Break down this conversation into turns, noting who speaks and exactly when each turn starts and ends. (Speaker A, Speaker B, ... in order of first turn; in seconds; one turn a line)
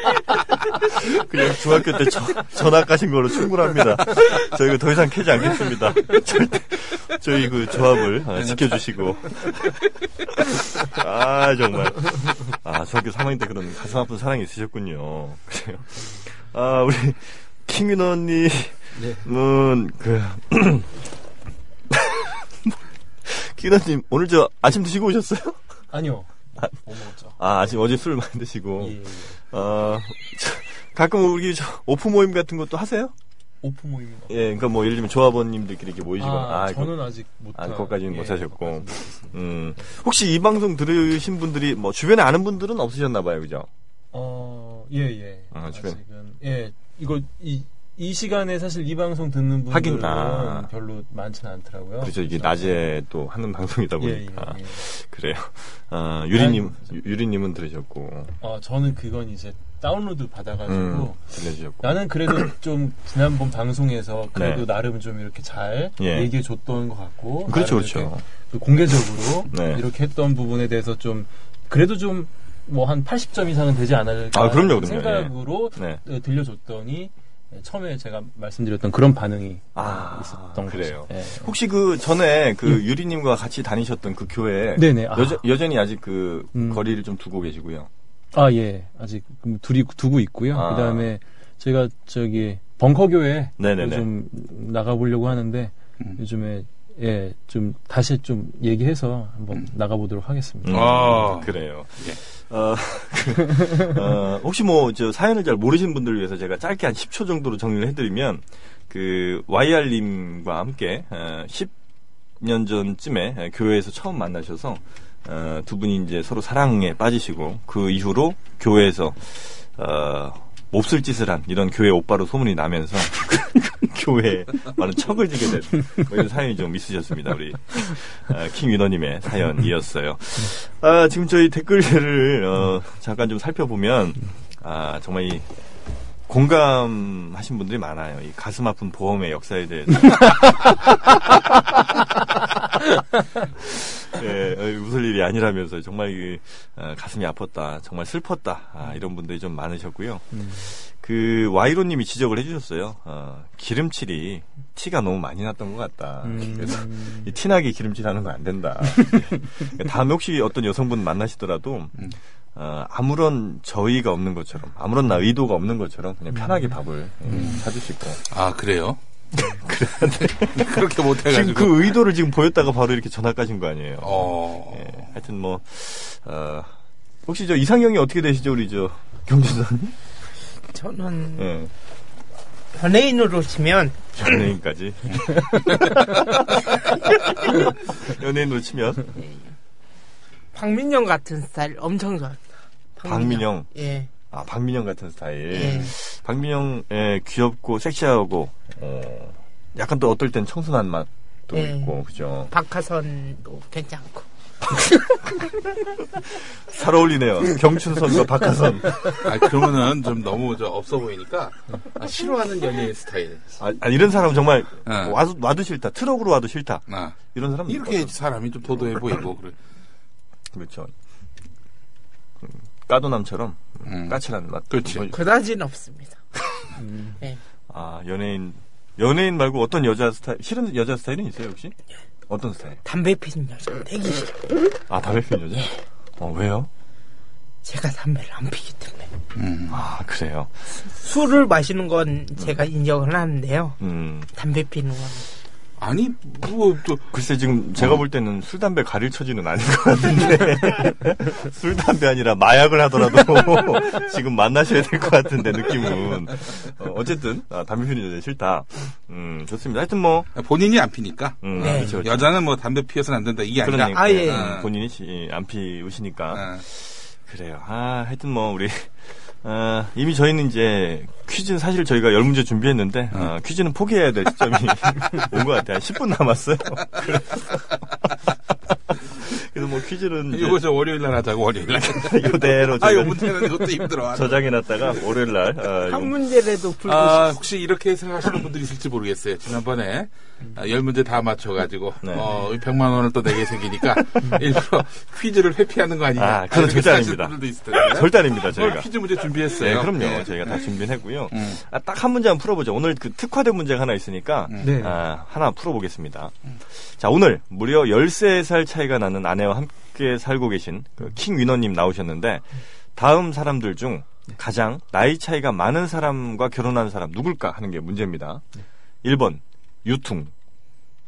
Speaker A: 0.8-20.9
Speaker B: 8.4-8.8
Speaker C: 18.9-19.3
Speaker A: 21.9-25.6
Speaker C: 25.9-27.4
Speaker A: 27.4-33.1
Speaker C: 28.8-29.4
Speaker C: 33.6-34.5
Speaker A: 34.3-43.7
Speaker C: 36.2-39.9
Speaker C: 44.1-52.8
Speaker A: 45.5-46.0
Speaker A: 49.7-50.7
Speaker A: 52.0-58.3
Speaker C: 54.0-54.8
Speaker C: 56.4-56.8
Speaker C: 58.4-81.5
Speaker A: 60.7-61.9
Speaker A: 64.3-64.7
Speaker A: 66.0-66.3
Speaker A: 67.5-68.2
Speaker A: 69.5-69.8
Speaker A: 74.3-76.0
Speaker A: 79.7-87.9
Speaker C: 84.7-85.4
Speaker C: 86.5-86.8
Speaker C: 88.3-101.0
Speaker A: 90.5-91.1
Speaker A: 93.6-94.1
Speaker A: 100.6-111.7
Speaker B: 100.7-102.2
Speaker A: 112.4-135.5
Speaker A: 136.3-140.7
Speaker A: 143.6-168.2
Speaker C: 150.3-150.7
Speaker C: 156.2-157.3
Speaker C: 166.3-166.7
Speaker B: 167.3-167.6
Speaker B: 168.3-169.0
Speaker A: 169.5-176.7
Speaker B: 170.5-172.0
Speaker B: 174.0-175.1
Speaker A: 177.2-179.9
Speaker D: 180.7-181.5
Speaker A: 181.4-181.7
Speaker D: 182.7-184.3
Speaker A: 184.2-189.1
Speaker D: 190.5-192.4
Speaker D: 193.0-194.1
Speaker A: 193.0-193.7
Speaker A: 194.3-202.5
Speaker D: 195.5-195.9
Speaker D: 201.5-201.9
Speaker D: 202.5-204.3
Speaker A: 206.1-209.5
Speaker B: 209.2-213.4
Speaker A: 213.6-218.1
Speaker B: 214.8-215.2
Speaker B: 216.9-219.6
Speaker A: 220.5-220.9
Speaker A: 222.4-225.1
Speaker B: 223.8-225.1
Speaker D: 225.1-226.2
Speaker C: 226.8-227.2
Speaker A: 227.7-231.8
Speaker A: 232.3-232.8
Speaker D: 232.8-234.6
Speaker A: 234.9-236.7
Speaker D: 237.6-239.1
Speaker B: 239.3-239.8
Speaker A: 239.7-240.5
Speaker D: 240.9-243.8
Speaker A: 243.8-244.3
Speaker D: 244.3-245.3
Speaker B: 245.8-247.1
Speaker A: 247.1-260.3
Speaker B: 260.3-264.7
Speaker A: 261.4-262.3
Speaker D: 261.6-261.9
Speaker A: 263.6-280.6
Speaker D: 263.7-264.6
Speaker B: 266.3-266.6
Speaker B: 280.3-284.5
Speaker A: 281.8-286.1
Speaker D: 285.9-287.4
Speaker B: 286.8-300.7
Speaker A: 292.0-292.3
Speaker A: 293.9-294.4
Speaker A: 296.1-318.4
Speaker B: 301.3-301.6
Speaker B: 304.5-304.8
Speaker C: 304.6-305.0
Speaker A: 319.0-320.3